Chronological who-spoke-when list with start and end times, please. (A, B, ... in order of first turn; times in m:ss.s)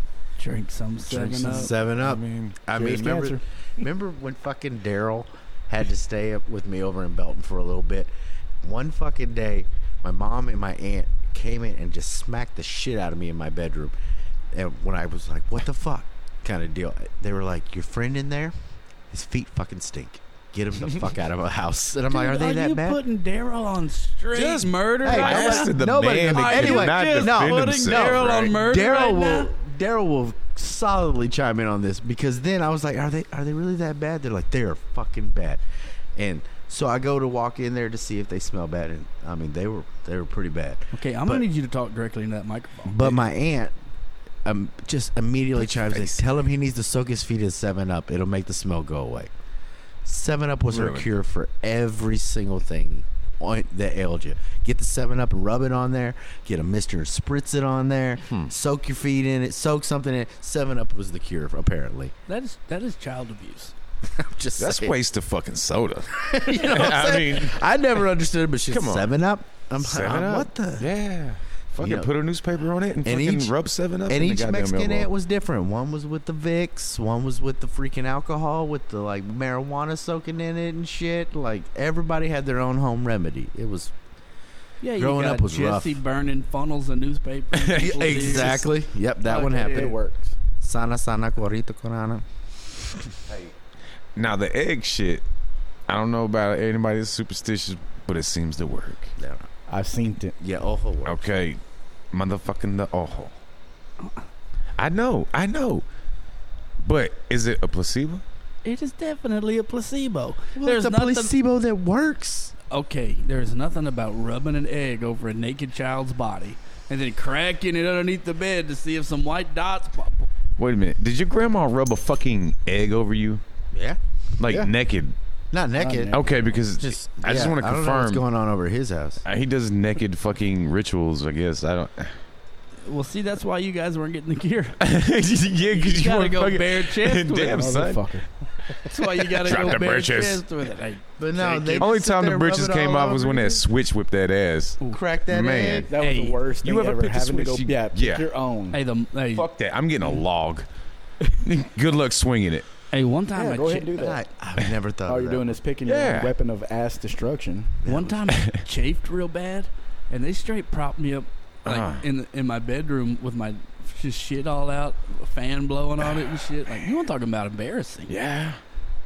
0:00.4-0:01.7 A
0:01.1-0:02.6 B
0:01.4-0:08.1 C
0:02.7-0:03.4 D
0:08.6-0:14.0 C
0:14.5-0:18.5 C
0:19.1-0:23.0 C
0:22.1-0:25.7 A
0:24.3-0:28.5 B
0:25.0-0:35.6 C
0:26.3-0:29.5 A
0:36.2-0:41.4 C
0:40.9-0:43.2 A
0:42.9-0:43.7 C
0:44.4-0:49.3 C
0:45.8-0:46.2 B
0:50.0-1:02.1 C
0:50.7-0:51.1 B
1:02.3-1:03.7 A
1:04.0-1:05.0 C
1:04.6-1:07.6 B
1:06.2-1:10.9 C
1:08.7-1:09.1 B
1:09.8-1:15.1 B
1:11.8-1:12.1 C
1:13.0-1:13.6 C
1:14.1-1:23.9 C
1:24.8-1:28.7 A
1:25.0-1:26.0 C
1:27.5-1:28.6 B
1:27.8-1:30.0 C
1:29.3-1:30.4 D
1:29.4-1:29.8 A
1:30.6-1:32.2 C
1:33.3-1:33.5 B
1:34.1-1:35.2 B
1:35.9-1:39.1 B
1:39.2-1:39.5 C
1:39.7-1:40.4 D
1:40.4-1:41.3 C
1:41.0-1:41.6 B
1:42.1-1:43.4 B
1:44.8-1:45.8 B
1:46.8-1:48.2 B
1:48.6-1:51.3 A
1:50.6-1:52.5 C
1:52.7-2:00.3 A
2:00.6-2:03.4 B
2:03.7-2:04.7 C
2:04.4-2:05.1 B
2:05.5-2:06.2 C
2:05.8-2:06.2 D
2:06.1-2:08.2 B
2:06.8-2:09.2 C
2:09.2-2:12.2 B
2:12.8-2:14.8 A
2:14.8-2:18.1 B
2:15.7-2:17.7 A
2:17.5-2:18.8 D
2:18.9-2:21.9 A
2:19.2-2:20.4 B
2:21.2-2:23.6 C
2:21.8-2:25.9 B
2:24.9-2:25.9 C
2:25.7-2:28.8 D
2:26.0-2:26.4 A
2:26.6-2:28.3 B
2:28.7-2:29.5 A
2:29.4-2:30.7 B
2:31.4-2:32.7 B
2:32.9-2:34.0 A
2:33.3-2:34.2 D
2:34.0-2:35.6 C
2:35.1-2:37.8 D
2:35.8-2:36.3 B
2:37.8-2:38.3 C
2:37.9-2:48.1 A
2:41.6-2:42.0 B
2:46.1-2:46.9 B
2:48.1-2:48.6 B